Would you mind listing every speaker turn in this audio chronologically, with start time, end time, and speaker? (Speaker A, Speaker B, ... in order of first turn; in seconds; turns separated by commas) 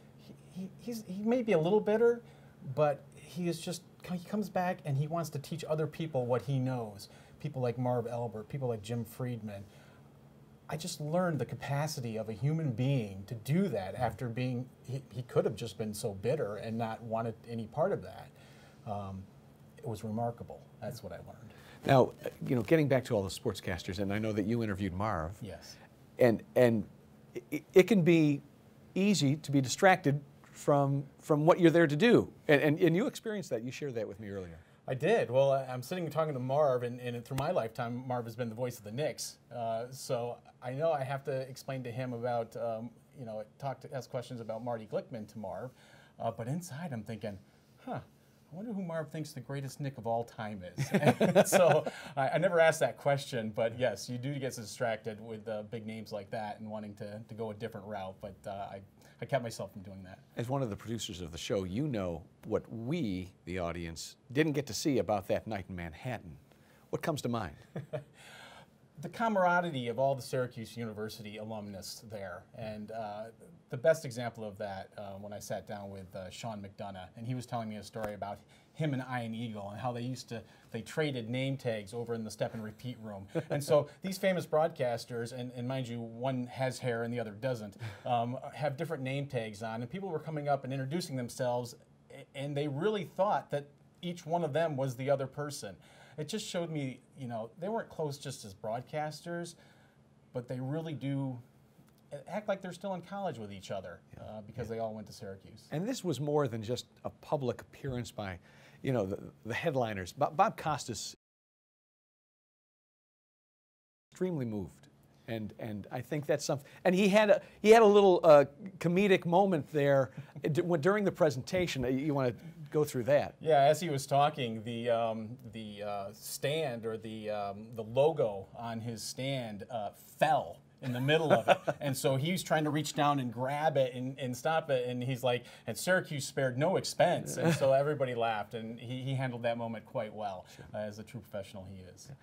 Speaker A: 0.2-9.7, Speaker A: 10.7-18.3, Speaker A: 18.8-19.2, Speaker A: 19.8-21.5, Speaker B: 21.8-25.4, Speaker A: 25.4-25.8, Speaker B: 26.2-28.4, Speaker B: 28.9-34.6, Speaker A: 34.9-60.2, Speaker B: 60.4-67.6, Speaker A: 69.0-99.5, Speaker A: 100.3-101.4, Speaker A: 102.1-105.7, Speaker B: 105.7-111.2, Speaker B: 114.1-123.4, Speaker A: 123.4-142.1